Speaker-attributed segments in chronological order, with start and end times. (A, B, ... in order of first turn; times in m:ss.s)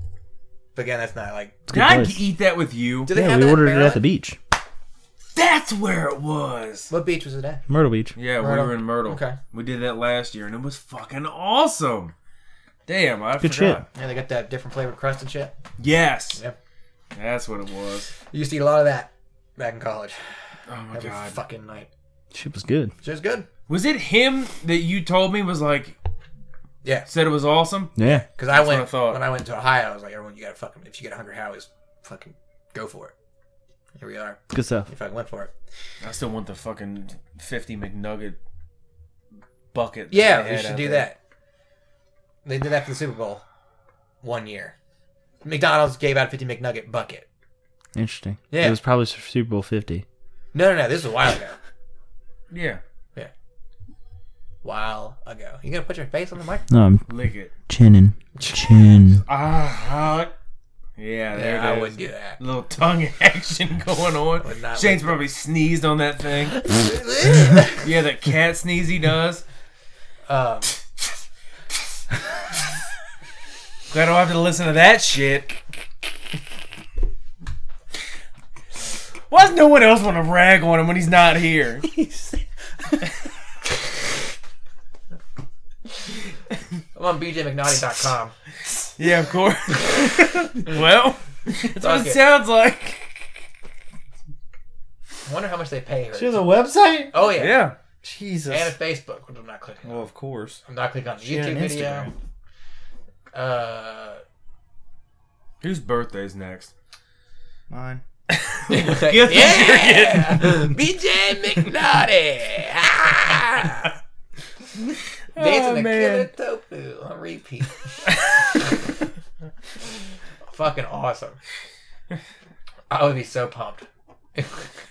0:00.7-0:01.6 A
0:01.7-0:02.2 B
0:01.7-0:03.1 C
0:03.1-0:04.0 A
0:03.1-0:04.4 B
0:05.3-0:06.9 C
0:06.9-0:07.6 A
0:07.7-0:08.1 B
0:08.2-0:12.1 C
0:08.4-0:09.4 A
0:12.8-0:13.8 C
0:13.4-0:13.8 B
0:13.9-0:15.5 A
0:15.8-0:16.4 C
0:17.1-0:18.1 C
0:18.3-0:20.2 A
0:20.7-0:21.4 C
0:20.9-0:21.9 A
0:22.3-0:22.9 B
0:23.0-0:23.5 A
0:23.7-0:25.9 C
0:27.1-0:27.9 C
0:28.0-0:28.2 B
0:28.0-0:33.1 A
0:28.5-0:29.2 C
0:34.0-0:35.5 A
0:34.5-0:34.9 B
0:36.0-0:38.4 C
0:39.7-0:41.1 C
0:40.1-0:41.2 A
0:42.4-0:43.4 A
0:44.2-0:44.7 A
0:45.4-0:47.2 A
0:47.9-0:50.0 B
0:48.5-0:48.8 A
0:50.5-0:51.6 A
0:52.5-0:52.8 C
0:54.6-0:56.6 A
0:56.7-0:57.0 B
0:57.1-0:57.5 C
0:57.7-0:59.2 B
0:58.4-0:58.7 A
0:59.2-1:00.3 C
1:01.0-1:06.6 C
1:01.3-1:02.4 A
1:04.4-1:05.2 A
1:06.5-1:07.8 A
1:07.8-1:09.4 C
1:10.3-1:10.7 A
1:13.9-1:15.6 C
1:19.3-1:21.8 C
1:21.9-1:22.4 B
1:26.9-1:28.3 A
1:29.0-1:33.4 C
1:31.8-1:32.2 A
1:35.2-1:36.4 A
1:36.1-1:37.1 B
1:37.1-1:37.7 A
1:37.2-1:37.7 C
1:38.0-1:38.7 B
1:38.5-1:40.1 A
1:39.8-1:40.6 B
1:40.6-1:42.1 A
1:41.2-1:42.1 B
1:43.3-1:44.2 A
1:45.6-1:46.7 C
1:47.7-1:48.0 B
1:48.3-1:50.7 C
1:48.7-1:53.9 A
1:55.3-1:56.3 C
1:55.4-1:57.9 A
2:00.5-2:01.4 A
2:02.9-2:04.7 A